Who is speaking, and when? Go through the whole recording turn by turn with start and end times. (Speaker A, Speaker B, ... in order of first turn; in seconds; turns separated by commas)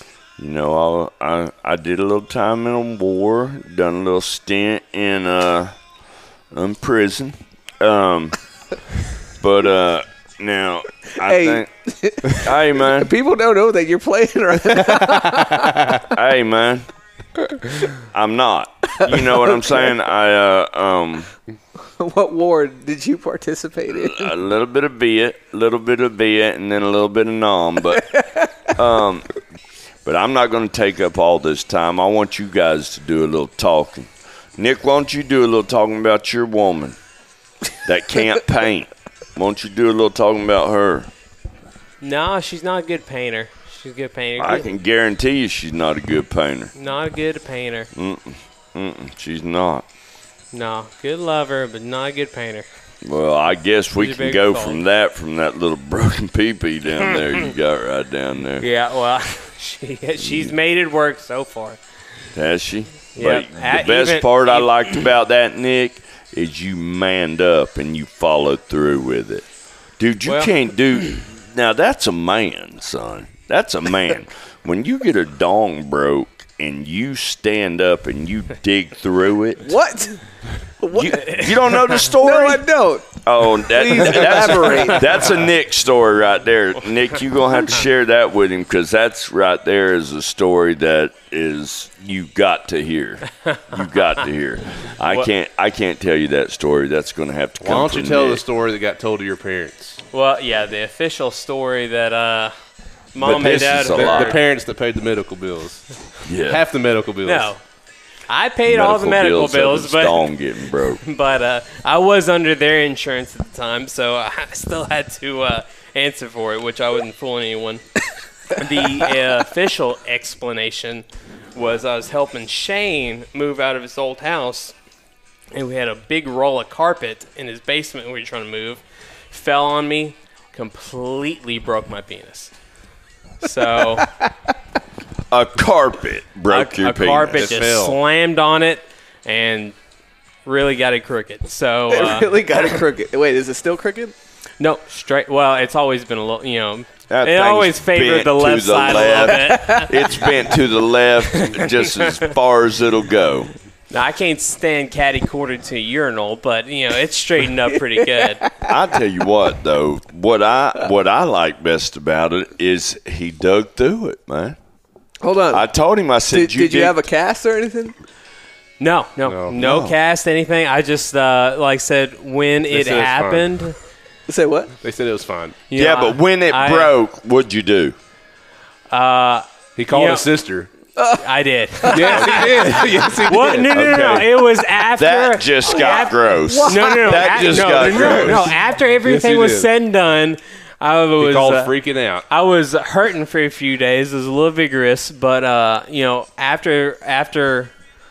Speaker A: 0.4-5.8, Speaker A: 6.5-8.4, Speaker A: 9.4-11.7, Speaker B: 11.2-16.0, Speaker A: 12.3-13.1, Speaker A: 16.0-16.9, Speaker A: 18.0-21.3, Speaker B: 19.0-19.9, Speaker B: 22.0-24.4, Speaker A: 23.9-29.3, Speaker B: 28.2-28.5, Speaker A: 30.1-37.0, Speaker A: 37.9-41.1, Speaker C: 42.0-44.7, Speaker A: 44.4-46.7, Speaker C: 46.8-47.9, Speaker A: 47.9-49.9, Speaker C: 50.5-52.7, Speaker A: 53.0-58.7, Speaker C: 54.0-54.8, Speaker C: 58.6-61.8, Speaker A: 60.2-60.5, Speaker A: 62.3-69.5, Speaker C: 63.1-65.1, Speaker A: 70.0-79.8, Speaker C: 70.3-70.5, Speaker B: 79.6-80.2, Speaker B: 80.8-81.5, Speaker A: 80.9-98.4, Speaker C: 81.1-81.8, Speaker B: 82.2-85.3, Speaker D: 97.6-100.0, Speaker C: 100.1-102.5, Speaker C: 103.1-104.4, Speaker A: 103.2-104.4, Speaker D: 103.9-107.5, Speaker A: 106.2-106.6, Speaker C: 107.2-107.6, Speaker C: 108.3-110.3, Speaker A: 108.7-111.0, Speaker C: 111.0-117.8, Speaker C: 118.5-124.8, Speaker C: 125.5-132.5, Speaker C: 133.4-134.1, Speaker A: 135.3-137.5, Speaker C: 136.5-139.8, Speaker D: 137.3-138.0, Speaker C: 140.4-142.8, Speaker B: 141.9-144.1, Speaker C: 144.6-149.9, Speaker A: 147.1-153.5, Speaker B: 149.4-149.9, Speaker C: 151.3-152.2, Speaker C: 153.9-158.5, Speaker B: 158.2-158.7, Speaker A: 158.6-164.6, Speaker B: 165.2-165.7, Speaker A: 165.5-167.1, Speaker B: 166.3-167.9, Speaker C: 168.8-173.8, Speaker D: 169.2-169.5, Speaker A: 169.5-170.0, Speaker D: 172.7-173.5, Speaker B: 174.3-174.7, Speaker D: 174.8-175.6, Speaker C: 175.7-176.9, Speaker A: 175.7-177.9, Speaker C: 178.9-180.3, Speaker D: 179.8-180.7, Speaker B: 181.0-183.3, Speaker C: 181.2-191.7, Speaker D: 181.9-183.7, Speaker A: 183.7-188.5, Speaker B: 186.4-187.7, Speaker D: 187.7-188.5, Speaker D: 189.0-189.7, Speaker D: 191.2-192.3, Speaker C: 192.3-197.7